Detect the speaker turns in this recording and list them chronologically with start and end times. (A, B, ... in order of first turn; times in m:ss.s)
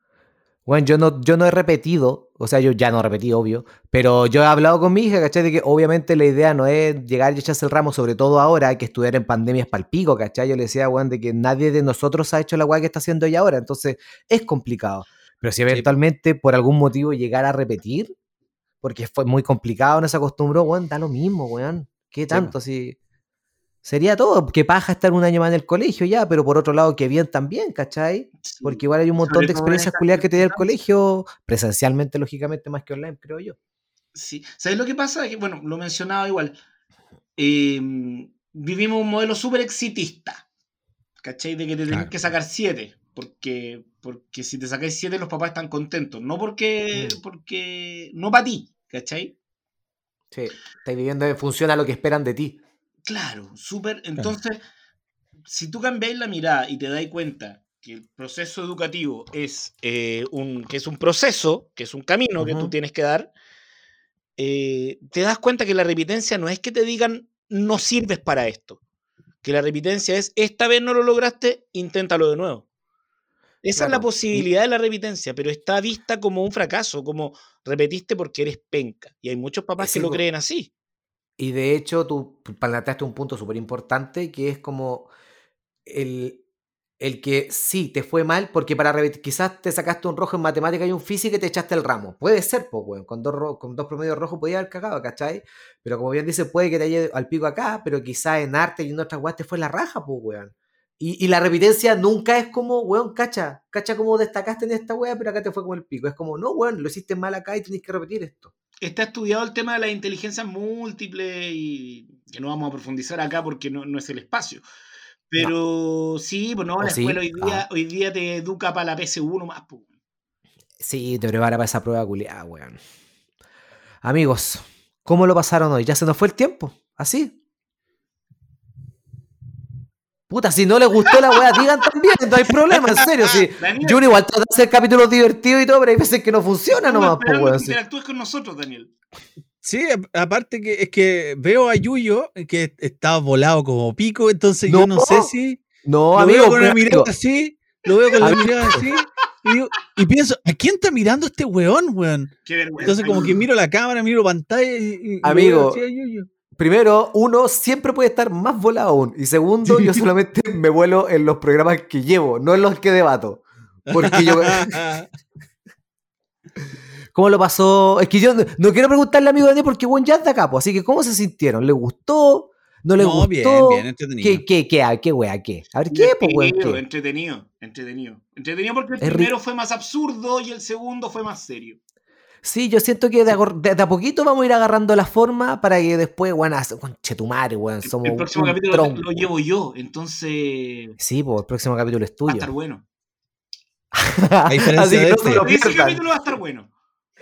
0:00.7-0:18.1 A
0:18.8-0:23.0 A
0:23.8-0:33.6 A
0:28.4-0:30.6 B
0:34.1-0:36.6 B
0:37.4-0:40.4 B
0:41.2-0:49.3 B
0:50.3-0:52.6 A
0:53.0-0:54.6 B
0:55.5-1:03.3 B
1:02.4-1:02.7 A
1:04.4-1:08.8 B
1:09.4-1:12.6 B
1:13.6-1:20.7 B
1:13.8-1:14.4 A
1:19.8-1:20.2 A
1:21.4-1:25.1 A
1:25.8-1:26.4 A
1:27.0-1:48.5 A
1:48.8-1:54.6 B
1:55.3-1:59.8 B
1:56.8-1:57.6 A
2:00.8-2:02.8 A
2:04.0-2:07.4 A
2:10.3-2:17.8 A
2:12.7-2:13.4 C
2:13.6-2:14.0 B
2:16.7-2:18.9 B
2:19.6-2:32.3 C
2:24.7-2:25.3 A
2:25.8-2:27.1 A
2:28.2-2:28.8 A
2:32.4-2:33.4 B
2:32.8-2:36.3 C
2:35.2-2:35.8 A
2:36.6-2:44.7 A
2:43.9-2:45.1 C
2:47.1-2:56.8 A
2:53.0-2:54.4 C
2:55.9-3:01.8 B
2:59.0-2:59.3 A
3:02.4-3:09.0 A
3:07.8-3:11.0 B
3:11.0-3:12.5 A
3:12.3-3:12.8 B
3:13.9-3:16.0 A
3:14.4-3:15.4 C
3:15.3-3:16.7 B